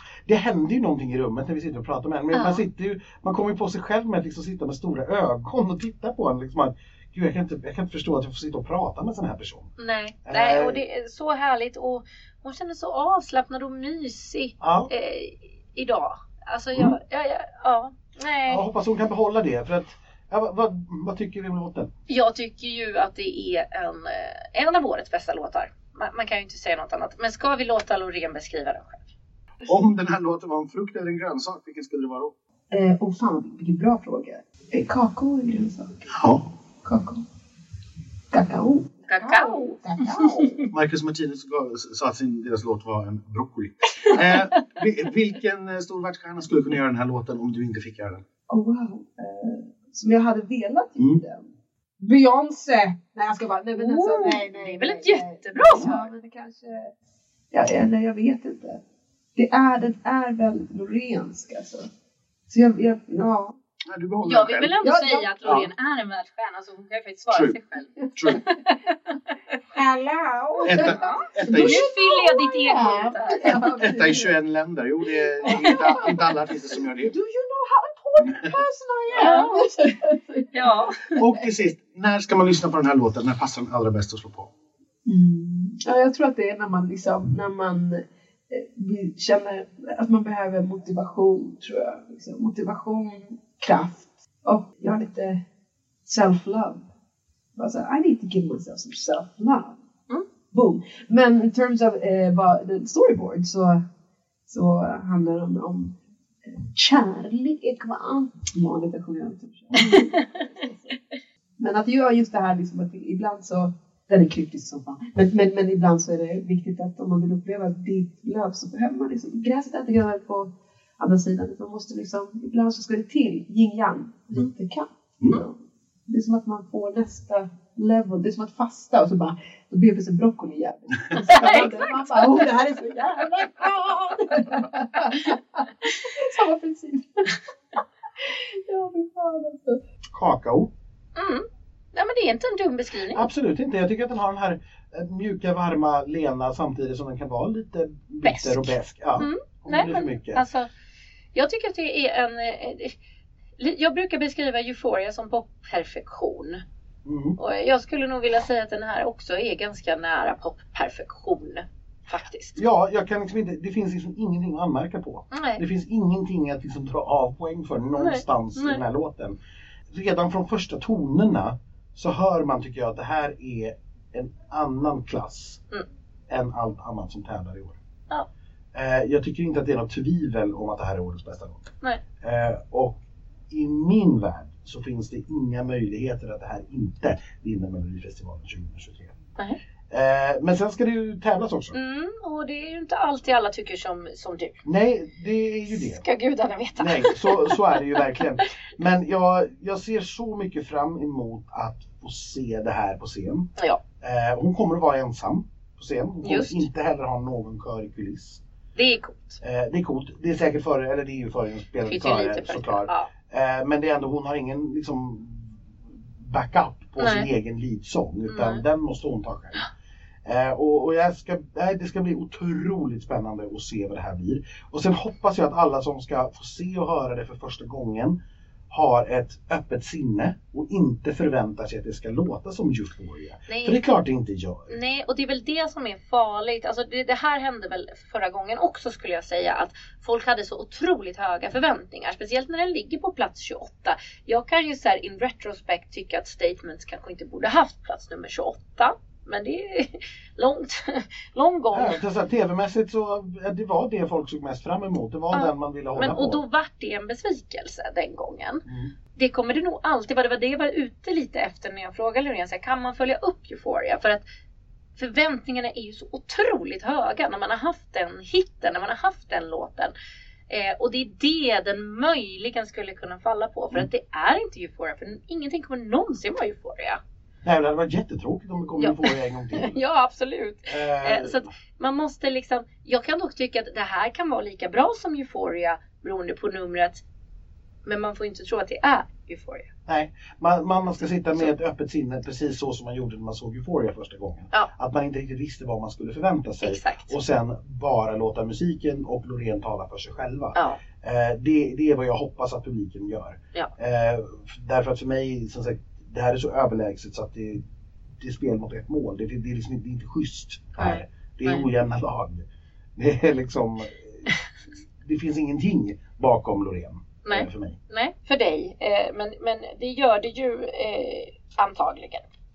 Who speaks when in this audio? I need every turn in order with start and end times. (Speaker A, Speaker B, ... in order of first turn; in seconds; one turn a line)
Speaker A: 0.3-9.7
Speaker B: 2.3-2.6
Speaker B: 9.8-18.6
Speaker A: 10.3-10.8
Speaker A: 14.6-14.9
Speaker A: 18.5-21.9
Speaker B: 22.1-29.0
Speaker A: 29.6-32.3
Speaker C: 32.7-36.2
Speaker A: 36.1-36.5
Speaker C: 36.8-37.2
Speaker C: 38.3-40.7
Speaker B: 39.1-40.6
Speaker A: 40.7-48.2
Speaker C: 48.5-51.5
Speaker C: 52.0-56.9
Speaker B: 53.8-56.1
Speaker C: 57.5-58.8
Speaker C: 59.4-61.9
Speaker C: 62.5-63.6
Speaker A: 63.9-64.8
Speaker B: 64.2-69.2
Speaker C: 64.8-65.3
Speaker A: 65.4-65.7
Speaker A: 67.3-67.6
Speaker A: 68.2-68.4
Speaker C: 69.7-74.3
Speaker A: 70.6-71.9
Speaker B: 70.7-73.8
Speaker A: 73.5-77.1
Speaker C: 75.2-76.4
Speaker C: 77.0-80.7
Speaker A: 78.2-78.6
Speaker B: 79.1-79.6
Speaker B: 80.5-81.2
Speaker A: 81.1-84.5
Speaker C: 85.1-95.4
Speaker C: 96.1-96.9
Speaker C: 97.6-99.8
Speaker C: 100.5-103.8
Speaker C: 104.5-111.0
Speaker B: 109.8-110.4
Speaker C: 111.6-139.8
Speaker B: 131.2-132.5
Speaker A: 140.1-140.7
Speaker B: 141.2-143.2
Speaker A: 143.1-150.4
Speaker B: 148.2-150.7
Speaker B: 151.3-152.9
Speaker B: 153.6-156.6
Speaker A: 157.1-157.4
Speaker B: 157.4-162.6
Speaker A: 162.6-169.4
Speaker B: 165.3-165.6
Speaker B: 168.0-168.8
Speaker A: 169.9-175.6
Speaker A: 176.3-177.8
Speaker A: 178.7-189.2
Speaker A: 189.9-191.8
Speaker B: 191.7-194.6
Speaker A: 194.7-196.0
Speaker B: 195.8-198.4
Speaker A: 196.8-203.5
Speaker B: 203.6-203.8
Speaker A: 204.0-208.4
Speaker B: 206.2-206.7
Speaker B: 208.8-209.4
Speaker A: 209.4-215.5
Speaker B: 211.9-213.1
Speaker A: 216.2-219.7
Speaker B: 217.0-217.3
Speaker B: 218.3-218.6
Speaker A: 220.2-228.2
Speaker A: 228.7-234.7
Speaker B: 233.5-233.8
Speaker B: 234.7-252.0
Speaker A: 251.7-256.4
Speaker B: 255.3-258.6
Speaker A: 258.7-258.9
Speaker B: 259.2-264.2
Speaker B: 265.0-269.9
Speaker B: 270.5-277.0
Speaker A: 277.4-279.8
Speaker B: 278.8-287.0
Speaker A: 280.7-281.5
Speaker B: 287.9-289.7
Speaker A: 289.9-307.6
Speaker B: 296.6-297.1
Speaker B: 300.6-300.8
Speaker A: 308.2-314.3
Speaker B: 310.8-311.7
Speaker A: 315.0-317.8
Speaker B: 317.2-322.2